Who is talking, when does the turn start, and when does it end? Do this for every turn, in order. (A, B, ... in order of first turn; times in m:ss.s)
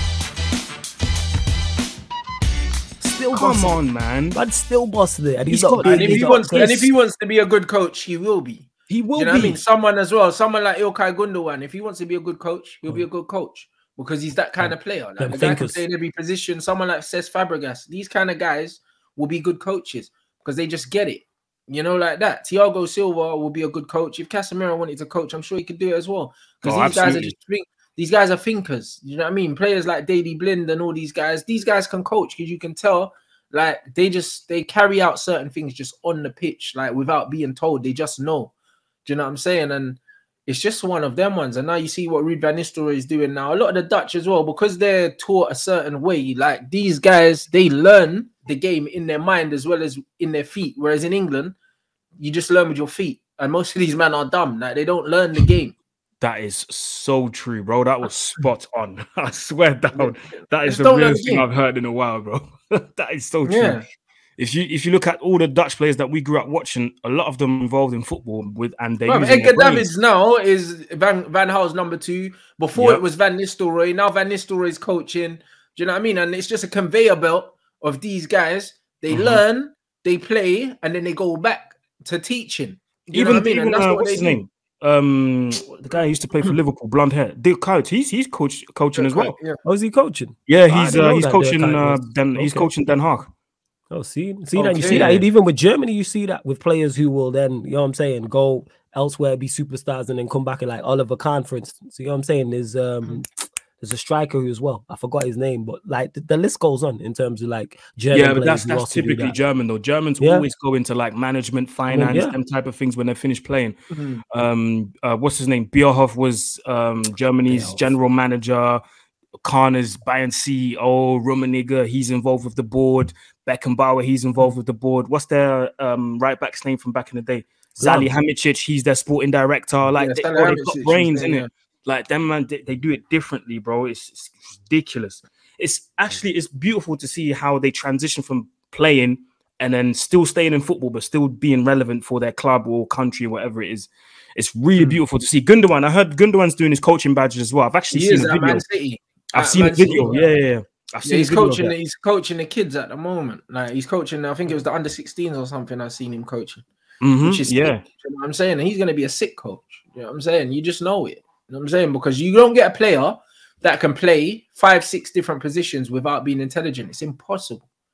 0:03.0-0:03.8 A
0:03.3-0:04.4 B
0:04.3-0:06.9 A
0:05.5-0:06.7 B
0:05.8-0:38.5 C
0:08.9-0:09.6 B
0:14.6-0:15.8 A
0:26.6-0:27.3 B
0:39.0-0:51.5 C
0:52.2-0:55.7 C
0:56.2-1:03.8 B
0:59.9-1:01.4 C
1:03.4-1:03.8 C
1:04.4-1:09.9 B
1:09.1-1:24.4 C
1:12.7-1:13.0 B
1:19.1-1:19.4 B
1:23.1-1:29.4 B
1:29.0-1:29.6 C
1:29.6-1:32.8 A
1:30.5-1:33.3 B
1:33.9-1:43.3 A
1:34.5-1:35.1 C
1:34.8-1:35.3 B
1:43.8-1:49.4 A
1:48.1-1:53.8 B
1:50.2-1:50.4 A
1:51.9-1:52.3 A
1:53.9-1:54.2 C
1:54.3-1:58.8 B
1:57.5-1:57.9 A
1:59.4-2:28.6 B
2:07.8-2:08.1 A
2:10.0-2:11.5 C
2:27.9-2:30.3 C
2:29.3-2:31.7 B
2:31.0-2:36.6 C
2:37.0-2:37.8 B
2:37.2-2:47.6 C